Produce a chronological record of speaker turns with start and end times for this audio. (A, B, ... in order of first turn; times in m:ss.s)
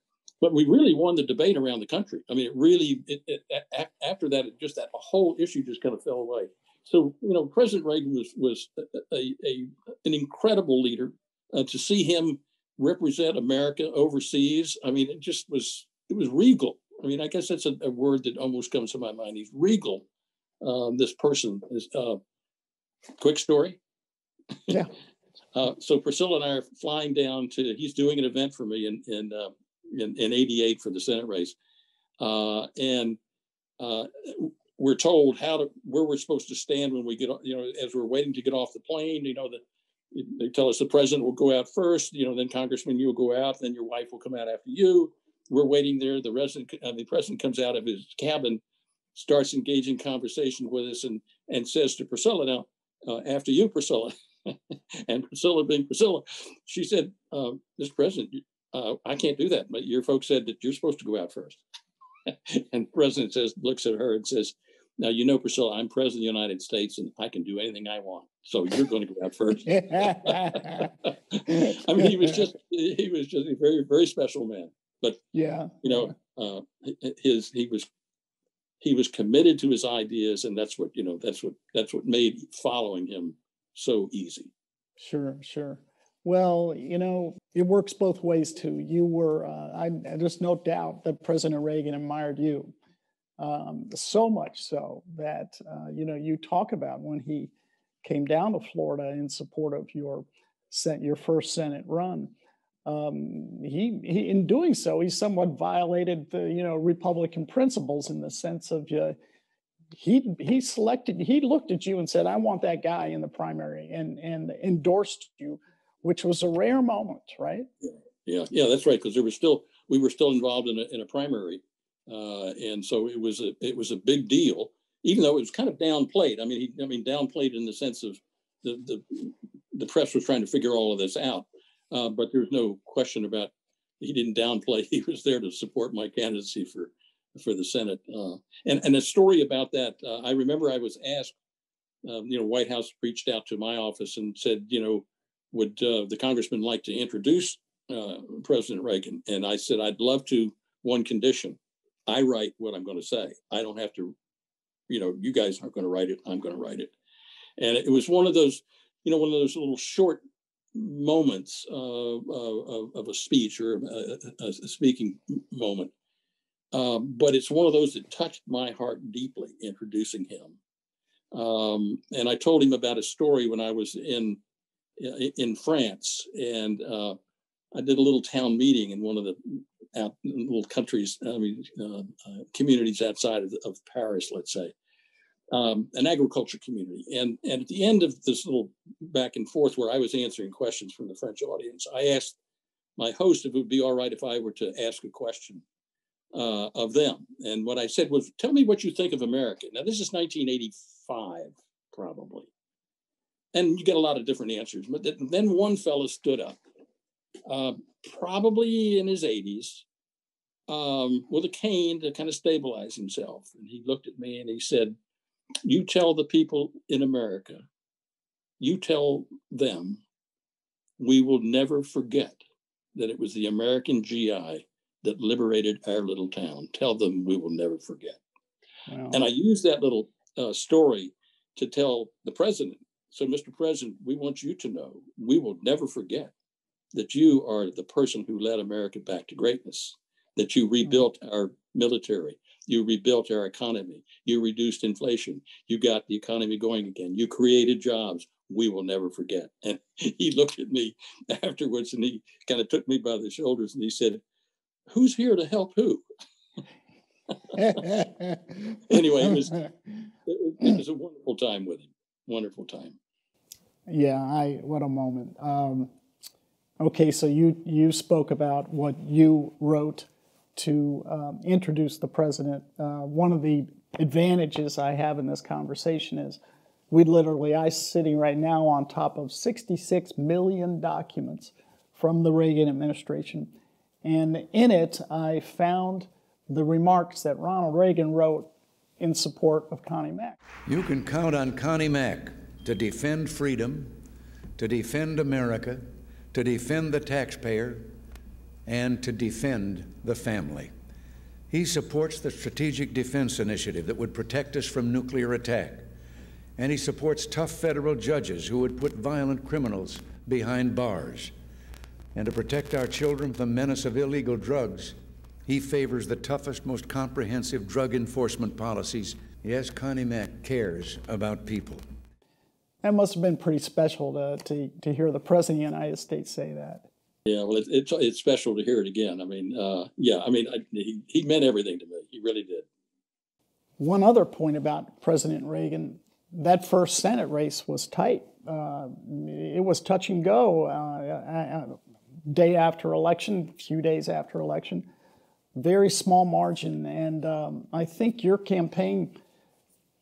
0:00.4-0:20.0 A
0:20.6-0:22.2 A
0:23.2-0:23.8 A
0:25.6-0:31.6 A
0:32.2-0:33.2 A
0:33.8-0:48.6 A
0:49.1-1:01.6 A
1:02.3-1:15.2 A
1:09.7-1:10.9 B
1:11.5-1:12.4 B
1:15.3-1:16.1 B
1:15.8-1:17.9 A
1:18.8-1:24.5 A
1:25.0-1:32.7 B
1:33.4-1:37.5 B
1:38.0-1:42.3 B
1:42.9-1:49.2 B
1:49.9-1:57.7 B
1:57.8-2:21.4 A
2:22.0-2:34.2 A
2:34.9-2:36.9 A
2:37.6-2:40.2 A
2:40.7-2:45.9 A
2:46.7-2:50.6 A
2:51.3-2:54.4 A
2:55.0-2:57.2 A
2:57.7-3:04.7 A
3:05.5-3:12.4 A
3:13.0-3:15.6 A
3:16.3-3:22.5 A
3:23.5-3:26.6 A
3:27.5-3:29.8 A
3:30.7-3:35.0 A
3:35.6-3:37.7 A
3:38.6-3:40.0 A
3:41.0-3:42.4 A
3:43.0-3:48.2 A
3:48.9-3:49.2 B
3:49.1-3:56.3 A
3:56.9-4:14.2 A
4:14.9-4:16.0 A
4:17.3-4:17.9 A
4:17.6-4:18.8 B
4:18.9-4:19.7 A
4:19.3-4:19.6 B
4:20.3-4:23.0 A
4:23.9-4:25.9 B
4:26.8-4:36.4 B
4:36.9-4:43.5 B
4:44.0-4:50.4 B
4:50.7-4:54.0 C
4:54.6-4:57.9 C
4:58.7-5:00.7 C
5:01.5-5:05.9 C
5:06.6-5:11.3 C
5:12.1-5:21.8 C
5:22.8-5:26.9 B
5:27.3-5:32.7 A
5:33.8-5:44.9 B
5:45.6-5:49.2 B